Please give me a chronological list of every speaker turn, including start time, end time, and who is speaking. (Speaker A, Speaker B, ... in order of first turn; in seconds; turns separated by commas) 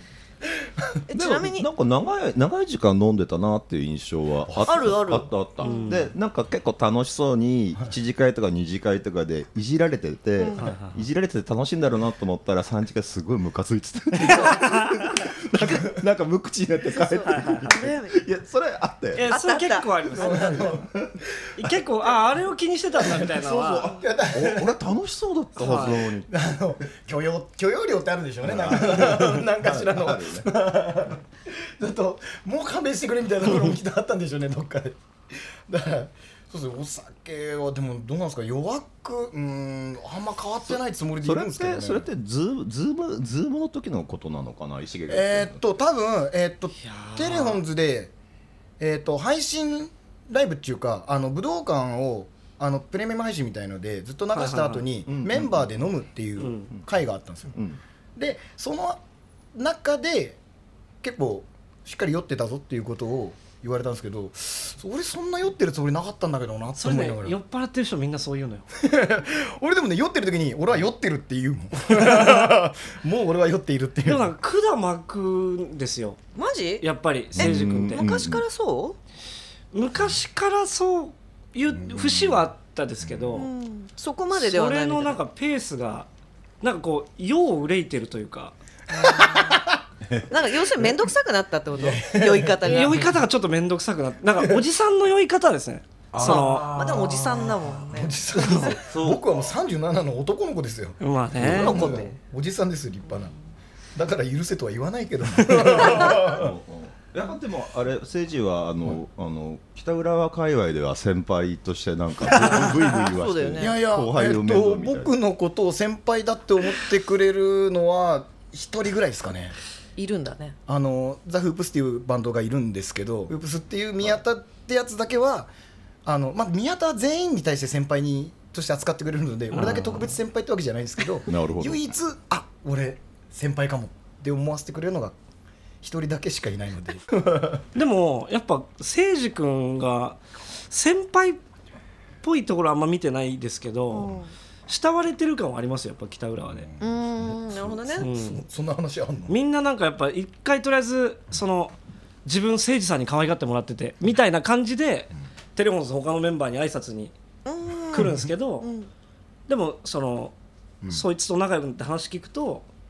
Speaker A: 0.4-1.0, Speaker B: 1.1-1.7, Speaker C: 1.1-19.3, Speaker A: 4.5-5.0, Speaker B: 4.7-5.9, Speaker D: 5.6-6.1, Speaker D: 10.6-11.0, Speaker D: 14.3-14.9, Speaker A: 15.5-16.0, Speaker B: 17.0-18.2, Speaker D: 17.2-17.7, Speaker D: 19.1-20.8, Speaker B: 19.2-19.9, Speaker A: 20.1-21.4, Speaker C: 20.6-21.2, Speaker D: 21.6-24.0, Speaker C: 23.1-26.3, Speaker A: 23.9-24.8, Speaker D: 25.6-26.1, Speaker A: 25.7-42.1, Speaker C: 28.4-30.5, Speaker C: 41.2-45.6, Speaker A: 45.1-48.1, Speaker D: 46.8-47.6, Speaker A: 48.8-57.6, Speaker D: 54.3-54.9, Speaker C: 55.1-55.8, Speaker D: 56.4-56.7, Speaker C: 57.5-57.8, Speaker A: 58.2-59.0, Speaker A: 59.5-60.4, Speaker A: 61.0-67.4, Speaker D: 66.8-68.7, Speaker A: 68.8-74.3, Speaker D: 72.0-72.3, Speaker D: 74.0-76.2, Speaker B: 76.3-76.8, Speaker D: 76.8-78.0, Speaker C: 77.4-78.5, Speaker B: 77.4-79.0, Speaker D: 79.7-83.5, Speaker A: 81.7-82.4, Speaker C: 83.0-83.4, Speaker B: 83.4-85.2, Speaker D: 84.3-86.1, Speaker D: 86.6-88.6, Speaker B: 88.9-89.6, Speaker A: 89.0-89.9, Speaker B: 90.3-93.1, Speaker A: 91.7-93.0, Speaker D: 92.6-96.7, Speaker A: 94.4-94.6, Speaker C: 96.1-97.9, Speaker B: 96.2-98.8, Speaker A: 97.8-103.3, Speaker C: 98.7-99.5, Speaker D: 101.0-102.1, Speaker C: 101.4-102.1, Speaker A: 104.0-106.6, Speaker C: 105.7-115.1, Speaker B: 112.4-113.8, Speaker A: 113.6-119.6, Speaker B: 120.0-120.6, Speaker A: 120.7-125.5, Speaker A: 126.1-135.2, Speaker D: 129.5-130.1, Speaker C: 131.3-131.9, Speaker A: 135.8-137.7, Speaker D: 137.8-141.4, Speaker D: 142.2-144.1, Speaker B: 143.9-144.3, Speaker D: 144.7-146.7, Speaker A: 146.5-149.4, Speaker B: 146.8-148.1, Speaker D: 148.0-148.4, Speaker D: 149.3-151.7, Speaker D: 152.2-157.1, Speaker B: 157.4-158.9, Speaker D: 157.9-158.7, Speaker D: 159.5-160.3, Speaker D: 160.9-162.7